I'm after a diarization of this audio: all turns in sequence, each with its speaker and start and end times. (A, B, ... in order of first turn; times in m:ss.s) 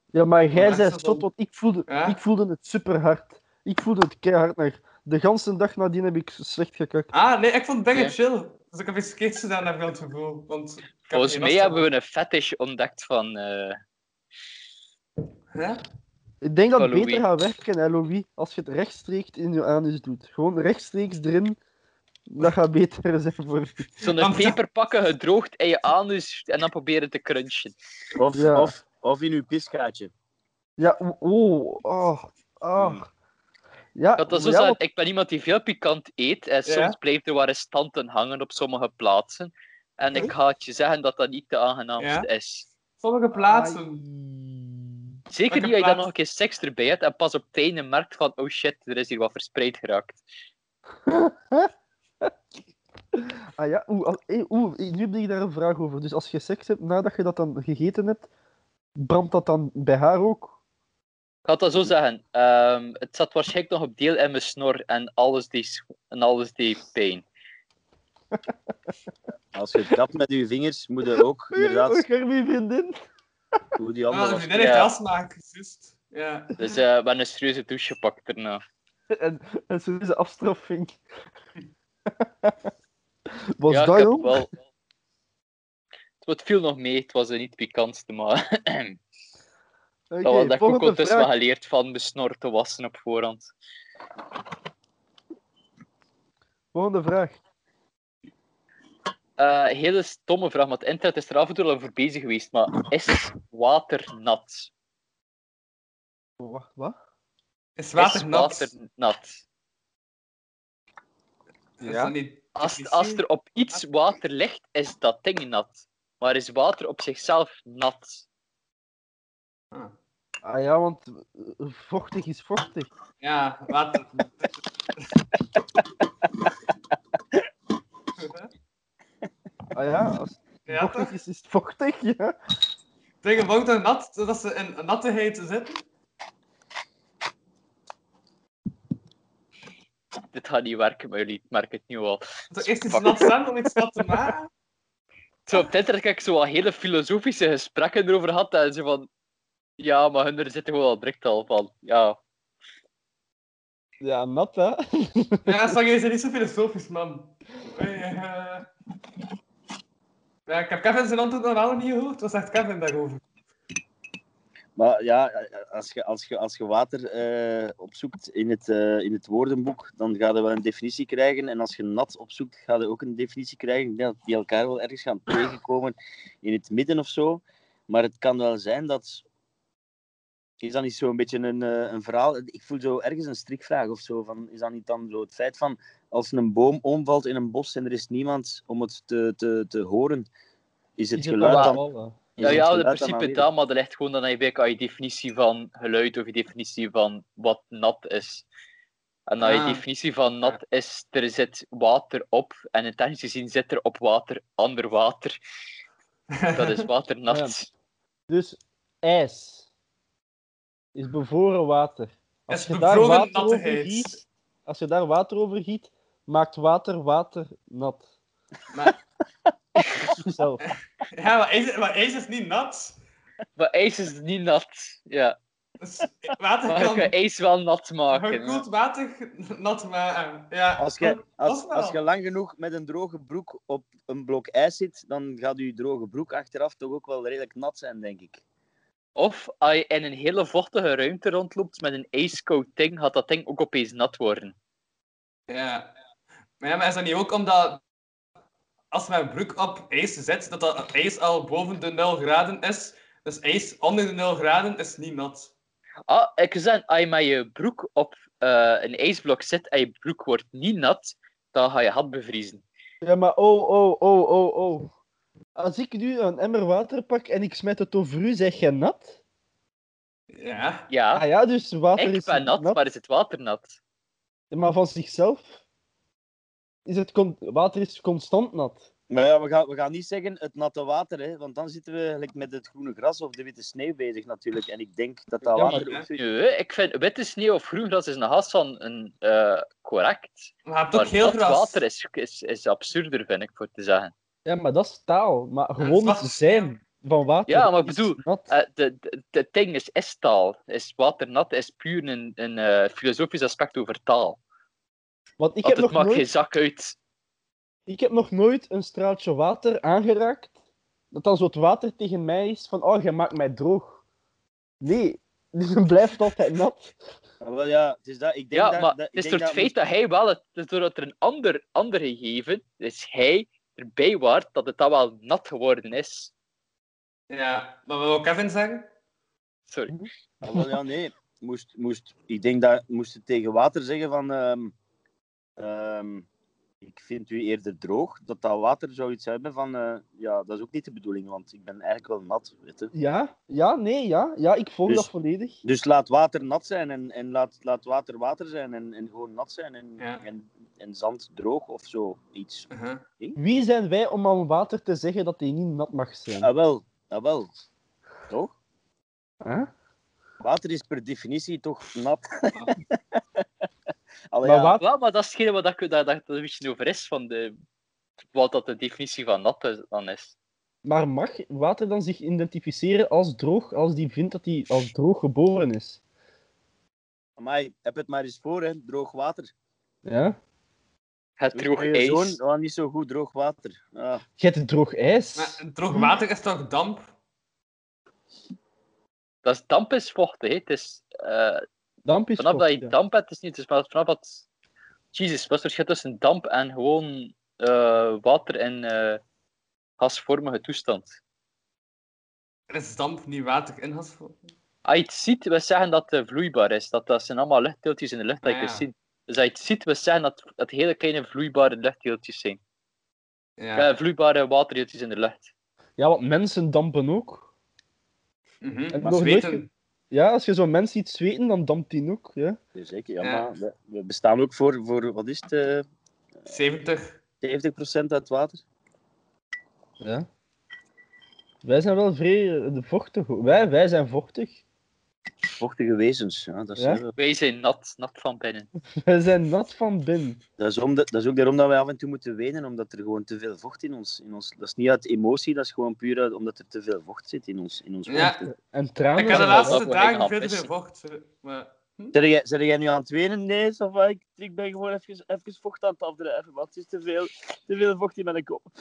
0:00.1-0:07.1 A
0:00.5-0:01.2 B
0:01.9-0:02.2 B
0:07.1-0:11.9 B
0:11.1-0:13.8 C
0:15.5-0:15.8 B
0:16.4-0:21.6 A
0:16.8-0:17.3 C
0:22.3-0:23.9 A
0:24.0-0:27.7 C
0:24.2-0:24.6 B
0:28.2-0:30.1 D
0:28.3-0:28.7 A
0:30.8-0:33.0 A
0:32.8-0:33.0 D
0:34.0-0:34.8 A
0:34.2-0:42.7 C
0:36.7-0:37.0 B
0:42.0-0:42.3 B
0:43.0-0:44.0 B
0:43.3-0:45.0 A
0:45.3-0:50.2 C
0:45.5-0:46.1 B
0:51.0-0:51.7 A
0:53.1-0:58.3 A
0:59.0-1:00.6 A
1:01.4-1:07.2 C
1:09.5-1:12.0 D
1:11.5-1:13.0 A
1:13.8-1:14.5 D
1:14.1-1:16.5 B
1:14.6-1:14.9 C
1:16.6-1:18.6 C
1:19.1-1:21.0 A
1:22.1-1:22.6 A
1:23.6-1:24.4 A
1:23.7-1:24.6 C
1:26.2-1:29.0 C
1:30.1-1:31.3 A
1:30.2-1:33.5 C
1:36.7-1:37.4 A
1:39.4-1:44.7 C
1:46.4-1:47.0 A
1:47.8-1:48.7 B
1:48.0-1:49.4 C
1:51.8-1:53.2 B
1:51.8-1:52.1 A
1:52.6-1:58.2 C
2:00.4-2:02.9 A
2:03.2-2:04.5 B
2:08.2-2:08.5 B
2:09.7-2:12.4 A
2:10.7-2:11.1 B
2:13.2-2:15.8 B
2:20.3-2:23.3 C
2:22.5-2:24.5 B
2:25.5-2:29.1 C
2:29.8-2:32.2 C
2:34.0-2:35.7 A
2:35.4-2:38.7 B
2:40.5-2:43.2 B
2:44.8-2:59.2 D
3:00.6-3:10.3 D
3:11.0-3:11.8 D
3:11.1-3:12.6 A
3:11.4-3:11.8 C
3:12.4-3:13.4 D
3:12.4-3:18.4 C
3:19.3-3:25.4 C
3:19.4-3:19.8 B
3:26.3-3:26.8 B
3:26.6-3:27.7 C
3:27.3-3:27.6 A
3:28.3-3:29.7 A
3:31.0-3:38.0 A
3:32.5-3:34.2 B
3:40.0-3:40.6 A
3:41.1-3:43.0 B
3:43.6-3:45.4 C
3:45.8-3:47.1 B
3:46.7-3:48.6 C
3:48.1-3:52.0 B
3:50.8-3:58.4 D
3:59.2-4:04.5 C
4:05.5-4:05.9 B
4:06.6-4:07.8 B
4:08.9-4:15.5 B
4:16.1-4:22.6 C
4:23.0-4:24.9 A
4:25.6-4:29.2 A
4:30.3-4:30.9 B
4:30.9-4:31.2 C
4:31.1-4:32.8 A
4:32.0-4:33.8 C
4:34.5-4:35.5 A
4:36.9-4:38.9 A
4:39.1-4:46.2 D
4:45.5-4:45.8 A
4:45.6-4:46.0 B
4:46.2-4:54.1 C
4:50.7-4:51.8 B
4:54.4-4:58.5 A
4:55.8-4:56.8 B
4:57.5-5:04.4 C
5:05.4-5:06.3 A
5:05.6-5:07.0 C
5:07.9-5:10.5 A
5:11.1-5:14.0 A
5:14.8-5:17.0 A
5:17.4-5:19.7 D
5:18.5-5:26.3 C
5:27.3-5:28.9 B
5:29.7-5:29.9 C
5:29.9-5:30.7 A
5:30.4-5:34.7 D
5:35.6-5:36.3 D
5:36.8-5:42.9 D
5:42.9-5:45.6 A
5:45.6-5:52.7 D
5:50.0-5:50.3 B
5:52.7-5:53.0 B
5:53.4-5:56.5 A
5:56.4-5:57.5 D
5:59.4-5:59.7 A
6:00.4-6:03.2 D
6:04.3-6:04.8 D
6:04.4-6:04.8 A
6:04.8-6:07.5 C
6:08.3-6:10.3 C
6:10.8-6:16.0 A
6:17.4-6:19.5 D
6:20.0-6:20.4 A
6:21.4-6:22.4 C
6:21.6-6:24.2 D
6:24.4-6:26.1 A
6:25.4-6:27.1 B
6:29.4-6:31.6 C
6:32.0-6:32.9 A
6:32.4-6:34.4 C
6:35.1-6:39.2 C
6:40.0-6:41.2 C
6:42.7-6:44.4 B
6:44.8-6:52.6 C
6:48.4-6:48.8 B
6:53.6-6:53.9 B
6:53.8-6:55.5 C
6:56.0-6:57.5 A
6:58.6-6:59.7 B
6:58.9-7:02.6 A
7:02.7-7:05.8 D
7:03.2-7:03.5 B
7:06.5-7:07.2 B
7:07.4-7:08.6 D
7:10.0-7:10.3 A
7:11.6-7:14.6 A
7:15.6-7:17.1 D
7:17.2-7:18.7 C
7:19.0-7:20.4 A
7:20.6-7:28.5 D
7:28.1-7:28.4 B
7:28.6-7:29.8 A
7:29.2-7:32.1 B
7:29.3-7:30.7 C
7:32.1-7:38.7 D